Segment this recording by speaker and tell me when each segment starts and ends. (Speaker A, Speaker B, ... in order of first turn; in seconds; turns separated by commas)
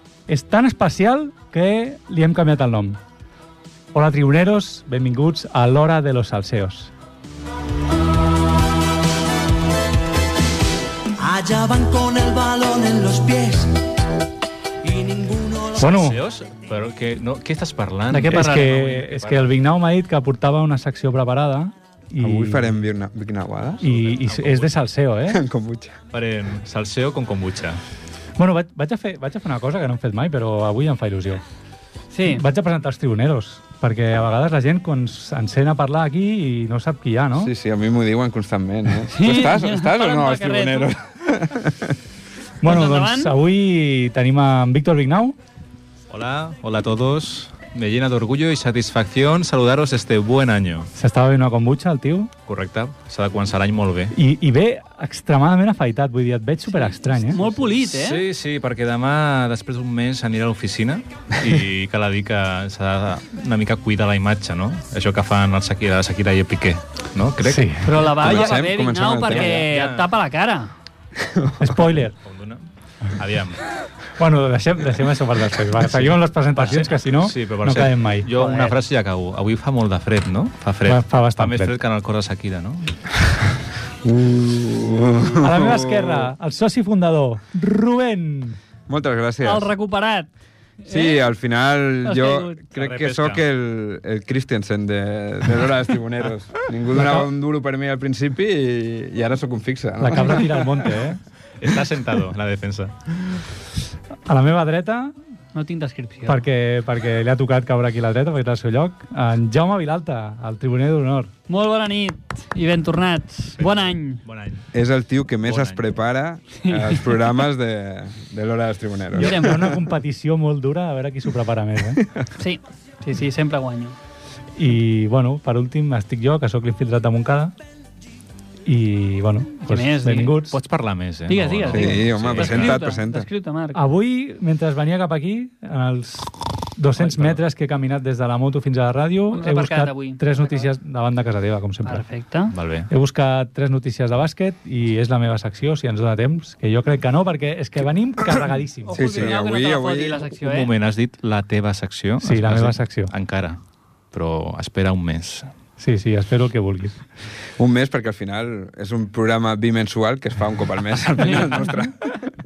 Speaker A: 0.3-3.0, Speaker A: 3.9-6.9, Speaker B: 11.2-13.8, Speaker B: 14.8-15.8, Speaker A: 15.8-16.2, Speaker C: 15.8-19.5, Speaker A: 18.1-22.7, Speaker D: 22.2-23.8, Speaker A: 23.8-25.4, Speaker C: 23.8-24.7, Speaker D: 25.3-26.0, Speaker C: 26.1-27.8, Speaker A: 28.4-31.4, Speaker E: 32.1-32.4, Speaker A: 32.3-37.5, Speaker D: 37.4-41.9, Speaker E: 39.1-40.9, Speaker A: 42.6-45.4, Speaker E: 42.6-43.3, Speaker C: 46.1-50.9, Speaker A: 50.9-52.3, Speaker C: 52.5-54.1, Speaker A: 54.1-57.4, Speaker E: 56.8-58.2, Speaker C: 57.7-68.5, Speaker A: 67.4-68.0, Speaker E: 67.8-70.7, Speaker D: 68.0-69.6, Speaker C: 69.3-70.0, Speaker D: 71.2-71.9, Speaker A: 71.6-72.2, Speaker C: 72.2-73.6, Speaker A: 74.2-78.3, Speaker C: 75.8-83.0, Speaker E: 78.4-78.7, Speaker A: 80.8-81.8, Speaker D: 84.0-86.3, Speaker A: 85.3-88.6, Speaker D: 88.9-89.7, Speaker E: 89.4-90.3, Speaker E: 90.8-91.3, Speaker D: 90.9-100.9, Speaker E: 92.0-92.6, Speaker C: 92.7-93.4, Speaker A: 96.9-97.3, Speaker A: 100.0-101.2, Speaker C: 101.6-103.4, Speaker A: 104.3-105.1, Speaker E: 105.5-106.4, Speaker A: 106.2-111.3, Speaker E: 111.5-114.2, Speaker C: 113.6-114.7, Speaker D: 114.7-119.9, Speaker C: 115.4-115.8, Speaker E: 116.6-117.1, Speaker A: 119.1-122.0, Speaker E: 119.1-119.6, Speaker E: 122.4-124.0, Speaker A: 124.5-127.5, Speaker A: 128.7-130.6, Speaker E: 129.7-130.3, Speaker C: 130.5-132.8, Speaker E: 131.3-133.8, Speaker D: 131.7-133.3, Speaker A: 133.7-142.0, Speaker C: 136.9-137.4, Speaker E: 139.3-140.5, Speaker E: 141.8-142.5, Speaker C: 142.5-142.9, Speaker A: 142.9-149.0, Speaker E: 148.8-150.7, Speaker D: 148.9-150.2, Speaker C: 150.4-153.6, Speaker A: 152.2-153.1, Speaker C: 154.1-155.5, Speaker A: 155.8-157.0, Speaker D: 157.6-162.2, Speaker E: 161.2-161.7